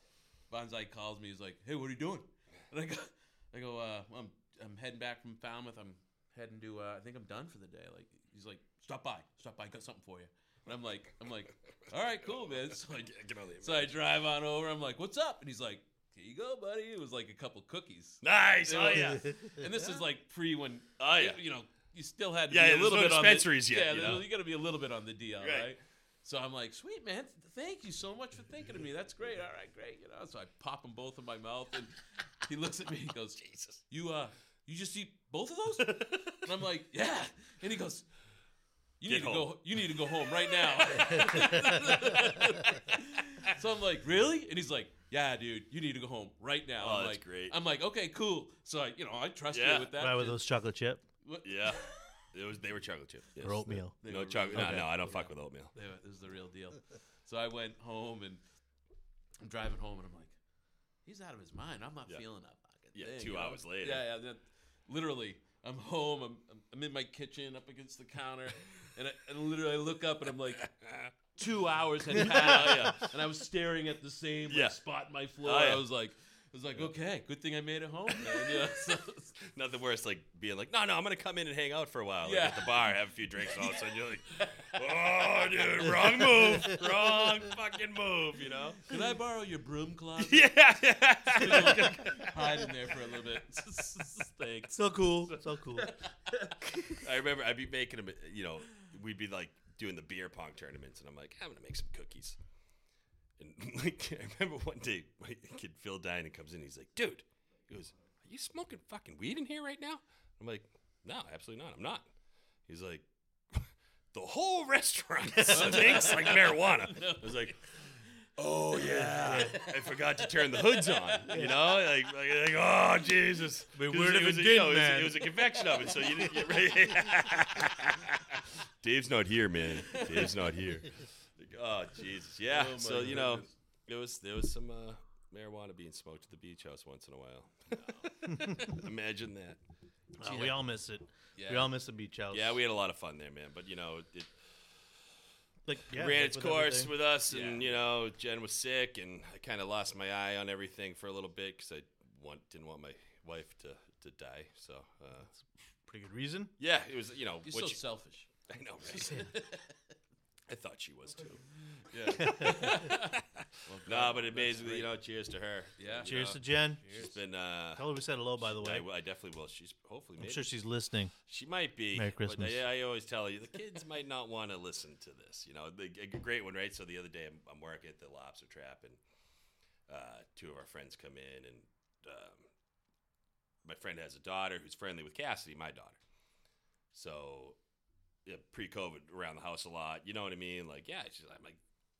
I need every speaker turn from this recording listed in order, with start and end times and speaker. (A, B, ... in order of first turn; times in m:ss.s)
0:00.5-0:38.0 A
0:12.2-0:14.0 B
0:18.2-0:19.4 B
0:19.2-0:19.8 C
0:21.0-0:21.4 B
0:22.5-0:24.2 B
0:25.4-0:25.7 B
0:33.4-0:33.8 B
0:35.8-0:36.5 B
0:39.0-0:50.4 A
0:39.1-0:40.0 B
0:40.7-0:43.5 B
0:41.2-0:42.4 C
0:46.8-0:47.6 B
0:49.5-0:49.9 B
0:49.9-0:51.0 C
0:51.2-0:52.0 A
0:51.4-0:55.7 B
0:53.4-0:54.0 C
0:54.0-0:58.4 A
0:54.5-0:54.9 C
0:59.4-1:00.4 A
1:01.0-1:10.7 A
1:02.9-1:04.0 B
1:10.6-1:11.1 B
1:11.4-1:19.4 A
1:12.1-1:13.1 B
1:14.5-1:14.8 B
1:15.4-1:15.8 B
1:18.2-1:18.7 B
1:19.4-1:29.0 B
1:22.2-1:24.7 A
1:26.0-1:26.2 A
1:26.5-1:26.7 C
1:28.8-1:30.6 A
1:30.2-1:32.6 B
1:31.3-1:36.5 A
1:34.7-1:35.9 C
1:36.9-1:42.4 B
1:43.4-1:52.1 B
1:52.7-1:57.8 B
1:55.4-1:56.0 C
1:55.5-1:58.1 A
1:58.4-2:19.6 B
1:58.8-2:01.3 A
1:58.9-1:59.6 C
2:01.3-2:01.7 C
2:03.7-2:05.4 C
2:06.0-2:06.5 C
2:09.8-2:10.4 A
2:12.5-2:13.5 A
2:18.3-2:18.8 C
2:20.2-2:22.6 C
2:20.2-2:20.6 A
2:21.4-2:21.7 A
2:22.3-2:24.3 B
2:25.6-2:26.9 C
2:25.9-2:35.3 B
2:27.3-2:27.7 A
2:35.8-2:36.5 C
2:36.6-2:37.8 B
2:37.4-2:38.3 A
2:38.5-2:39.3 B
2:38.8-2:39.8 A
2:40.5-2:41.5 B
2:41.7-2:44.9 A
2:42.1-2:47.9 B
2:42.1-2:42.8 C
2:45.8-2:47.2 A
2:46.0-2:46.8 C
2:47.8-2:48.8 C
2:48.4-2:50.5 B
2:50.2-2:51.1 C
2:51.2-2:59.0 B
2:51.9-2:52.6 C
2:59.9-3:02.5 B
3:03.6-3:06.0 B
3:06.9-3:07.6 B
3:08.2-3:11.6 B